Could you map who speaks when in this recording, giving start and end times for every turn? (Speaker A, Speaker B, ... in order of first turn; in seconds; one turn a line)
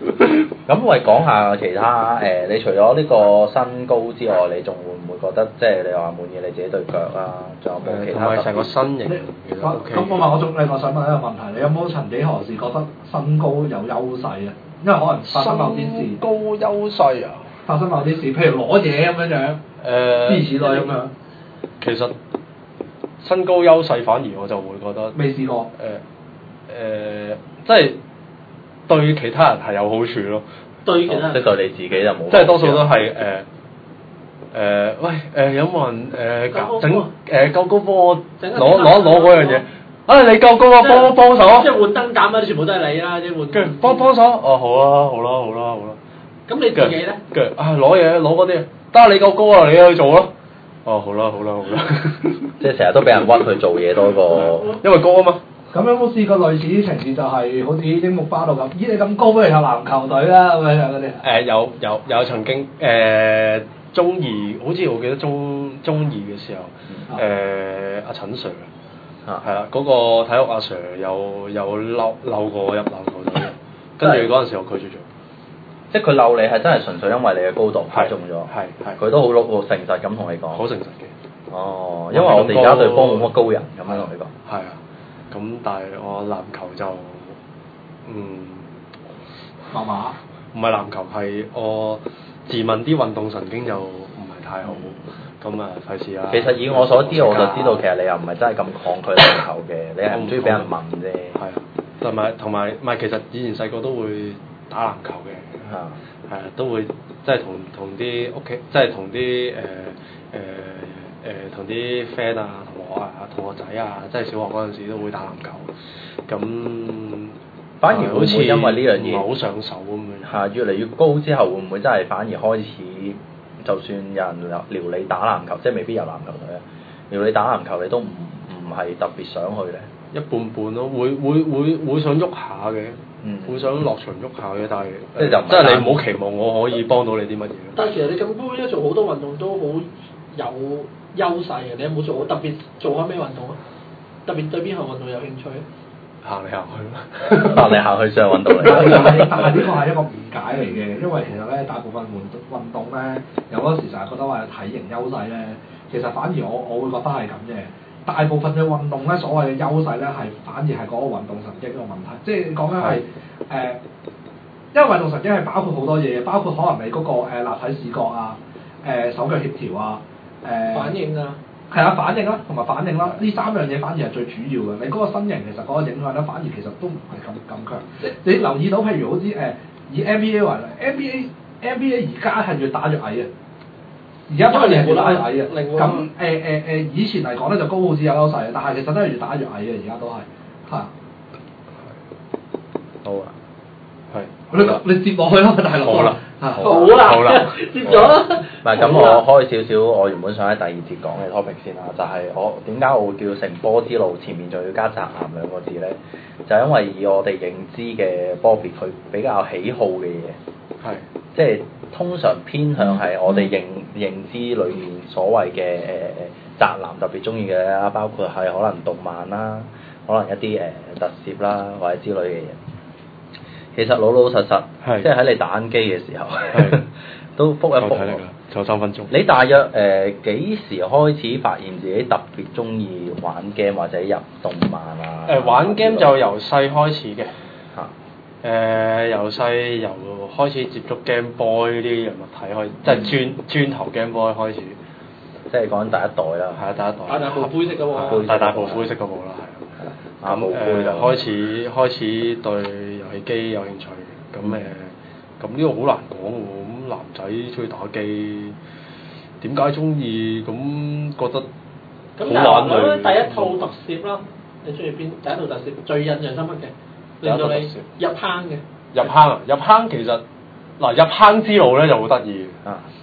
Speaker A: 0.1-0.4
Speaker B: 0.7-8.7
Speaker A: 7.8-10.2
Speaker C: 9.1-16.2
Speaker A: 15.3-17.5
Speaker C: 17.6-19.6
Speaker A: 19.8-20.7
Speaker C: 20.2-21.1
Speaker A: 21.8-22.1
Speaker A: 23.2-25.2
Speaker C: 25.1-25.7
Speaker A: 25.8-26.0
Speaker A: 26.7-28.0
Speaker A: 28.9-30.4
Speaker D: 30.9-31.4
Speaker B: 31.1-32.9
Speaker A: 32.3-33.5
Speaker A: 34.5-41.7
Speaker D: 36.5-37.1
Speaker D: 38.4-39.6
Speaker D: 40.8-44.1
Speaker A: 43.5-46.0
Speaker D: 46.5-47.2
Speaker A: 46.8-50.3
Speaker A: 50.9-52.5
Speaker B: 52.6-54.8
Speaker A: 54.2-55.4
Speaker C: 55.7-61.2
Speaker A: 61.2-68.7
Speaker A: 69.4-75.0
Speaker B: 74.0-74.3
Speaker B: 75.9-80.6
Speaker A: 77.9-79.0
Speaker A: 80.5-81.1
Speaker B: 81.5-84.3
Speaker A: 82.1-83.3
Speaker A: 83.9-84.8
Speaker A: 85.3-87.3
Speaker A: 88.1-88.7
Speaker C: 89.7-90.2
Speaker A: 90.5-97.8
Speaker B: 94.7-94.9
Speaker B: 96.3-101.4
Speaker A: 100.1-100.7
Speaker A: 101.3-105.7
Speaker B: 105.7-106.0
Speaker A: 106.3-115.7
Speaker A: 116.3-117.3
Speaker B: 117.8-119.3
Speaker A: 117.9-120.3
Speaker B: 120.2-129.9
Speaker A: 130.1-137.8
Speaker B: 133.2-133.7
Speaker B: 135.2-136.0
Speaker D: 137.8-143.6
Speaker D: 144.3-145.7
Speaker A: 146.2-147.8
Speaker B: 147.3-149.5
Speaker A: 148.5-149.2
Speaker C: 148.6-163.8
Speaker C: 164.7-171.0
Speaker D: 170.7-171.4
Speaker C: 171.7-183.3
Speaker C: 184.3-190.9
Speaker D: 184.4-186.1
Speaker A: 193.1-193.3
Speaker A: 194.1-194.8
Speaker C: 194.5-196.8
Speaker A: 195.8-198.1
Speaker D: 196.6-199.2
Speaker B: 198.6-210.4
Speaker B: 211.3-222.6
Speaker B: 223.8-228.2
Speaker A: 224.8-225.1
Speaker A: 226.5-226.9
Speaker A: 227.8-229.1
Speaker B: 229.1-236.1
Speaker A: 235.3-237.3
Speaker A: 238.4-244.8
Speaker B: 242.9-243.1
Speaker B: 245.5-246.6
Speaker A: 246.6-249.7
Speaker D: 247.1-248.3
Speaker B: 248.0-248.9
Speaker B: 249.8-251.2
Speaker A: 250.2-258.6
Speaker B: 254.4-254.7
Speaker A: 259.4-261.5
Speaker D: 262.2-268.6
Speaker A: 262.2-263.7
Speaker A: 267.2-267.9
Speaker A: 268.9-270.2
Speaker A: 270.8-272.6